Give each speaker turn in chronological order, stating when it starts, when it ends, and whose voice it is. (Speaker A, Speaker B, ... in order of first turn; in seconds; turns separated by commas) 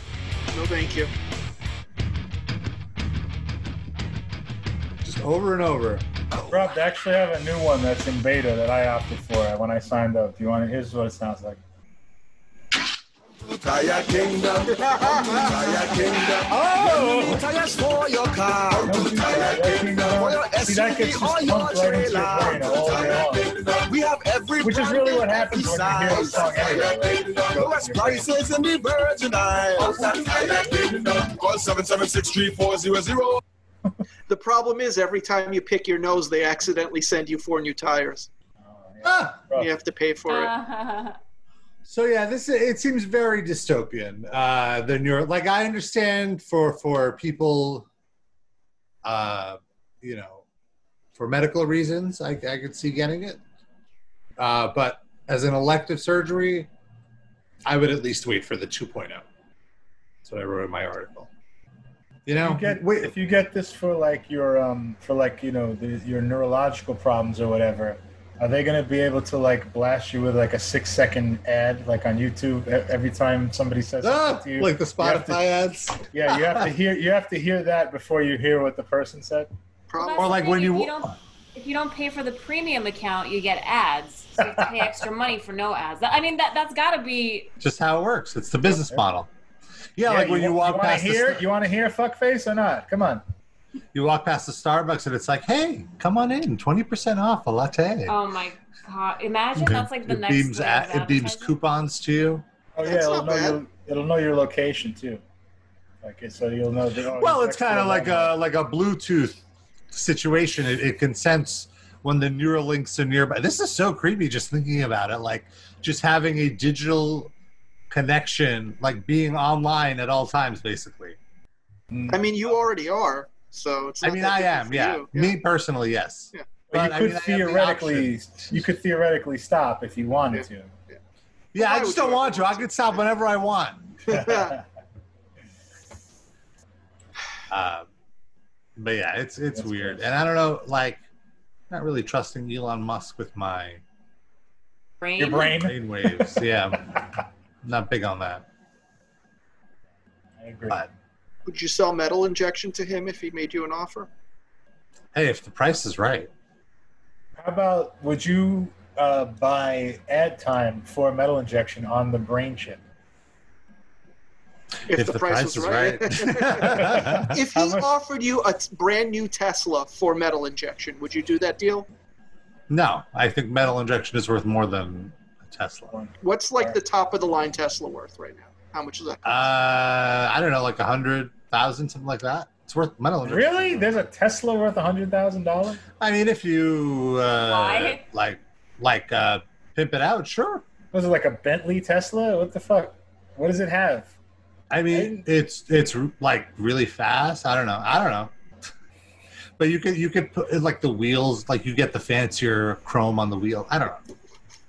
Speaker A: 0.5-1.1, Speaker B: 5.0-6.0, Speaker C: 6.5-11.6, Speaker D: 13.4-33.4, Speaker B: 16.5-17.4, Speaker C: 17.0-17.2, Speaker C: 18.9-23.5, Speaker C: 24.6-28.3, Speaker A: 34.3-38.3, Speaker C: 38.6-39.7, Speaker B: 39.0-39.4, Speaker A: 39.6-40.5, Speaker E: 40.3-41.2, Speaker B: 41.8-47.9, Speaker B: 49.0-50.4, Speaker B: 51.1-53.4, Speaker B: 54.4-56.7, Speaker B: 57.6-59.2, Speaker B: 60.2-61.3, Speaker B: 62.2-63.1, Speaker C: 62.4-75.4, Speaker B: 74.0-76.7, Speaker C: 76.1-79.5, Speaker A: 79.9-80.4, Speaker E: 80.0-87.5, Speaker B: 80.2-81.1, Speaker B: 87.6-89.3, Speaker C: 88.7-89.0, Speaker B: 90.0-91.5, Speaker C: 90.0-93.2, Speaker B: 93.9-98.2, Speaker E: 98.1-101.5, Speaker B: 99.5-102.4, Speaker C: 102.8-105.2, Speaker A: 102.8-103.6, Speaker C: 106.0-108.3, Speaker B: 107.2-117.3, Speaker B: 117.9-121.2, Speaker C: 121.9-122.2, Speaker A: 122.1-125.3, Speaker B: 124.0-128.6, Speaker C: 126.7-130.7, Speaker A: 130.3-131.0, Speaker B: 131.5-133.9, Speaker A: 131.6-132.8, Speaker A: 134.1-134.6, Speaker C: 134.1-134.6, Speaker B: 137.5-137.9, Speaker B: 138.8-141.0, Speaker C: 139.5-140.1, Speaker B: 141.7-143.8, Speaker E: 145.0-145.6, Speaker C: 145.2-146.4, Speaker B: 145.4-146.9, Speaker B: 147.6-148.4, Speaker C: 150.4-150.9, Speaker A: 151.4-154.1, Speaker B: 155.1-156.3, Speaker C: 157.4-162.8, Speaker A: 164.9-171.8, Speaker B: 164.9-167.4, Speaker C: 166.7-167.9, Speaker B: 172.7-175.9, Speaker C: 175.9-176.8, Speaker A: 176.2-179.4, Speaker B: 179.2-184.0, Speaker C: 183.2-185.8, Speaker B: 186.0-190.7, Speaker E: 187.4-188.0, Speaker C: 190.9-194.1, Speaker B: 194.7-198.3, Speaker C: 194.9-195.2, Speaker B: 199.6-204.0